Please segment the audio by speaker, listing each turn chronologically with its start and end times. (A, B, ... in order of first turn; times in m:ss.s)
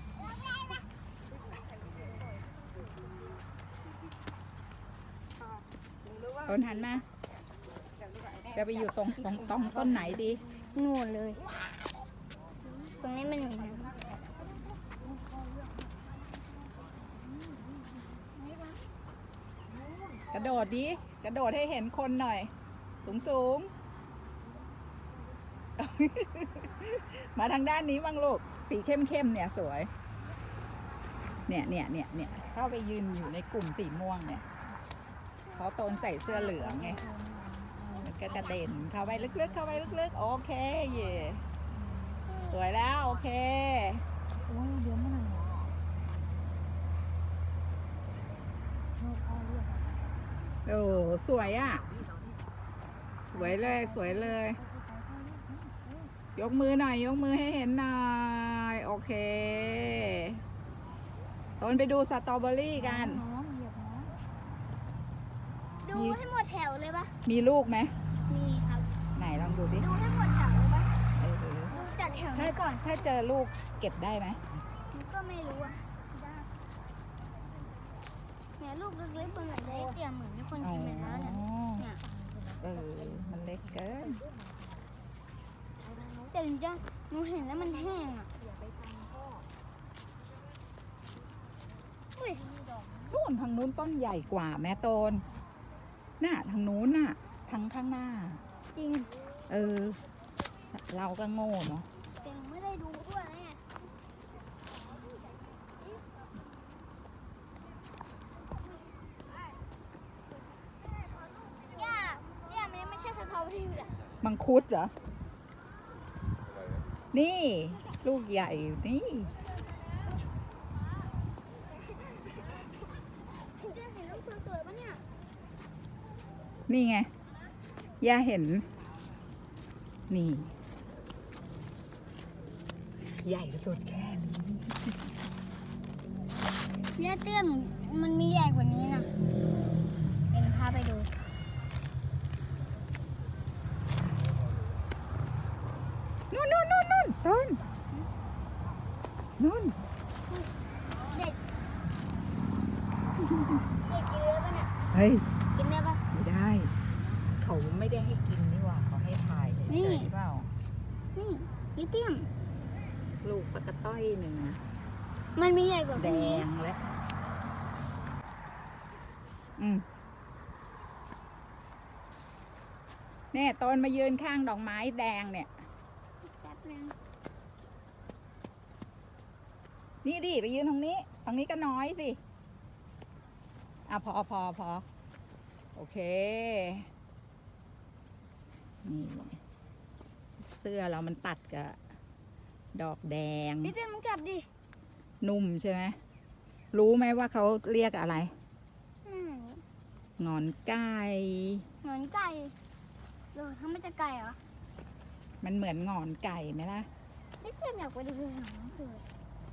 0:06.4-0:07.1 A
0:08.5-0:10.4 A
0:09.4-0:10.4 B
0:10.6-0:11.4 C
0:13.0-0:14.0 C
0:14.0-0:14.4 B
0:15.0-0:15.8 B
0:18.4-0:18.8 C
0:19.8-0:20.2 B
0:20.3-0:22.5 A
0:23.0-0:23.7 A
0:25.8-0:29.9 A
0:31.5-0:34.4 A
0:35.5-0:37.0 A
0:36.4-0:40.0 B
0:38.0-0:41.4 A
0:41.7-0:42.3 B
0:42.3-0:42.6 C
0:42.5-0:44.0 A
0:44.5-0:45.7 B
0:49.0-0:50.0 B
0:50.7-0:51.9 A
0:53.3-0:54.6 A
0:53.3-0:56.1 B
0:56.4-1:00.4 A
1:01.6-1:03.2 A
1:02.8-1:04.1 B
1:05.8-1:07.2 C
1:05.9-1:06.2 A
1:07.3-1:08.0 A
1:08.3-1:08.9 C
1:09.2-1:09.9 A
1:09.8-1:10.9 C
1:11.2-1:11.8 A
1:11.7-1:12.9 C
1:12.3-1:14.5 A
1:14.9-1:15.9 C
1:18.6-1:22.0 C
1:19.6-1:19.9 B
1:20.6-1:21.8 A
1:22.0-1:24.8 B
1:22.6-1:24.2 A
1:25.8-1:26.3 B
1:26.3-1:28.3 C
1:27.8-1:29.5 B
1:32.2-1:32.5 C
1:32.6-1:33.1 B
1:33.1-1:35.3 A
1:36.2-1:38.4 A
1:38.8-1:39.1 C
1:39.5-1:40.0 A
1:40.7-1:41.9 A
1:42.2-1:43.6 C
1:51.7-1:53.9 C
1:54.2-1:54.9 A
1:57.1-1:59.3 A
2:03.3-2:05.0 C
2:06.7-2:07.1 A
2:08.0-2:08.7 A
2:10.1-2:10.5 A
2:13.2-2:14.9 A
2:17.0-2:19.1 C
2:20.3-2:21.1 C
2:26.3-2:27.6 A
2:29.4-2:29.8 A
2:31.1-2:31.4 C
2:33.8-2:34.7 C
2:34.9-2:35.3 A
2:35.5-2:36.0 C
2:36.1-2:36.7 A
2:37.4-2:40.5 A
2:39.7-2:40.1 C
2:41.2-2:42.3 C
2:43.2-2:44.6 A
2:45.4-2:46.5 C
2:46.0-2:46.8 A
2:49.6-2:49.9 A
2:53.3-2:55.5 A
2:56.2-2:57.0 C
3:00.0-3:02.2 A
3:03.9-3:04.8 A
3:05.8-3:06.9 A
3:08.8-3:09.4 A
3:10.4-3:11.8 A
3:12.8-3:13.7 A
3:13.6-3:14.5 C
3:15.2-3:16.0 A
3:16.7-3:18.3 A
3:19.0-3:19.6 C
3:20.2-3:21.7 A
3:21.8-3:22.6 C
3:23.3-3:24.4 C
3:25.4-3:26.9 A
3:27.4-3:29.0 C